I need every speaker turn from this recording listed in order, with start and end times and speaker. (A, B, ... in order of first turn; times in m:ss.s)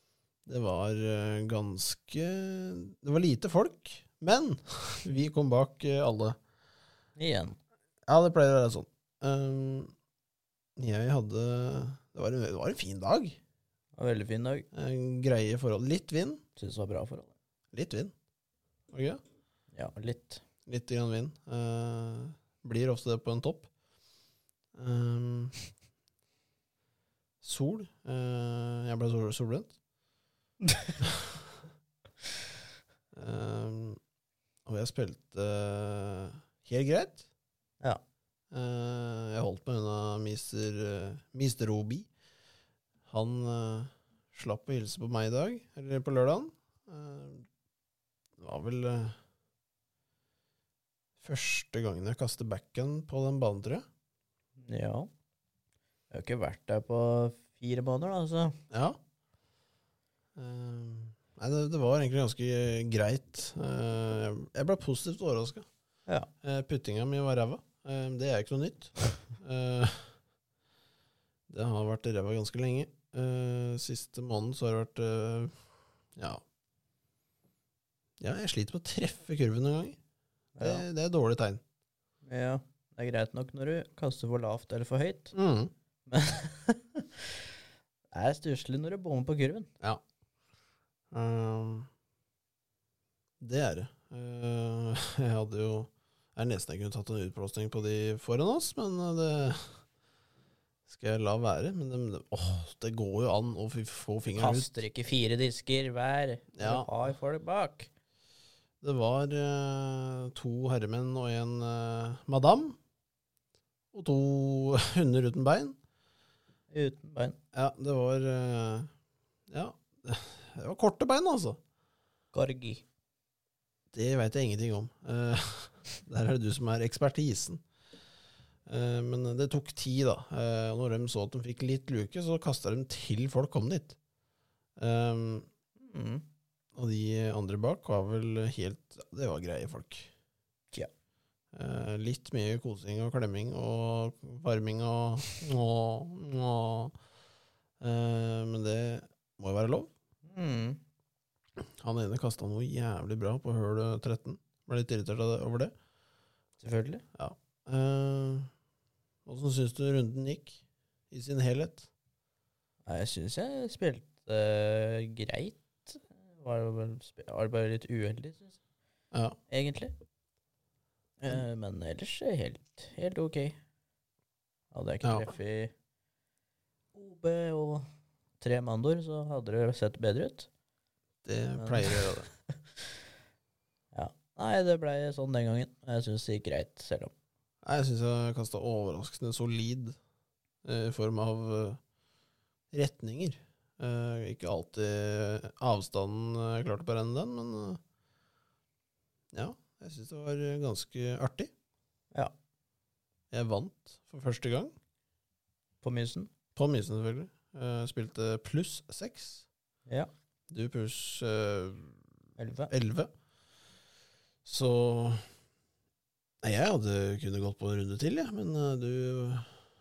0:00.4-0:06.4 A
0:07.2-0:07.6 B
0:08.1-0:09.9 A
0:10.8-0:13.4 A
0:14.0-0:14.7 B
0:14.7-0:16.4 A
0:16.6-0:17.3 B
0:17.7-0:18.1 A
0:18.9-0:19.2 A
0:19.7-0:20.4 B
0:20.6-0:23.7 A
0:24.7-0:25.5 A
0:27.4-0:29.7 A
0:31.0-0:31.4 A
0:33.1-0:34.0 A
0:34.6-0:37.2 A
0:38.5-0:42.1 A
0:43.1-0:47.4 A
0:48.4-0:49.2 A
0:51.2-0:53.8 A
0:54.6-0:55.1 B
0:56.1-0:58.6 B
0:58.7-0:59.0 A
1:00.4-1:05.6 A
1:06.4-1:10.1 A
1:11.5-1:15.5 A
1:16.2-1:16.4 A
1:18.2-1:20.0 A
1:20.6-1:20.8 B
1:20.6-1:21.6 A
1:22.2-1:25.3 B
1:25.3-1:25.7 A
1:26.1-1:27.4 B
1:28.1-1:29.7 B
1:31.1-1:31.9 A
1:33.4-1:39.8 A
1:40.9-1:44.8 A
1:44.4-1:47.9 B
1:46.5-1:46.9 A
1:48.8-1:52.8 A
1:53.9-1:55.8 A
1:56.7-1:57.4 B
1:57.5-1:58.9 A
1:59.5-2:01.6 A
2:02.3-2:02.8 B
2:03.9-2:07.6 A
2:08.7-2:14.0 A
2:14.8-2:15.5 A
2:15.8-2:16.2 B
2:16.7-2:20.1 A
2:21.5-2:26.9 A
2:27.8-2:29.9 A
2:30.2-2:30.8 B
2:31.8-2:35.7 A
2:36.6-2:37.0 B
2:37.1-2:38.5 A
2:39.2-2:41.9 A
2:42.8-2:48.6 B
2:49.5-2:49.9 B
2:51.2-2:53.6 B
2:54.7-2:55.7 B
2:55.0-2:55.3 A
2:56.9-2:57.8 B
2:58.4-3:00.5 B
3:01.2-3:02.3 A
3:01.6-3:02.1 B
3:03.9-3:07.1 B
3:07.6-3:10.0 A
3:10.6-3:11.8 A
3:12.7-3:17.8 A
3:19.3-3:21.5 A
3:23.3-3:24.7 A
3:25.8-3:26.3 B
3:26.6-3:29.4 A
3:30.5-3:32.0 A
3:32.4-3:32.7 B
3:32.7-3:33.1 A
3:34.4-3:35.2 A
3:36.4-3:39.5 A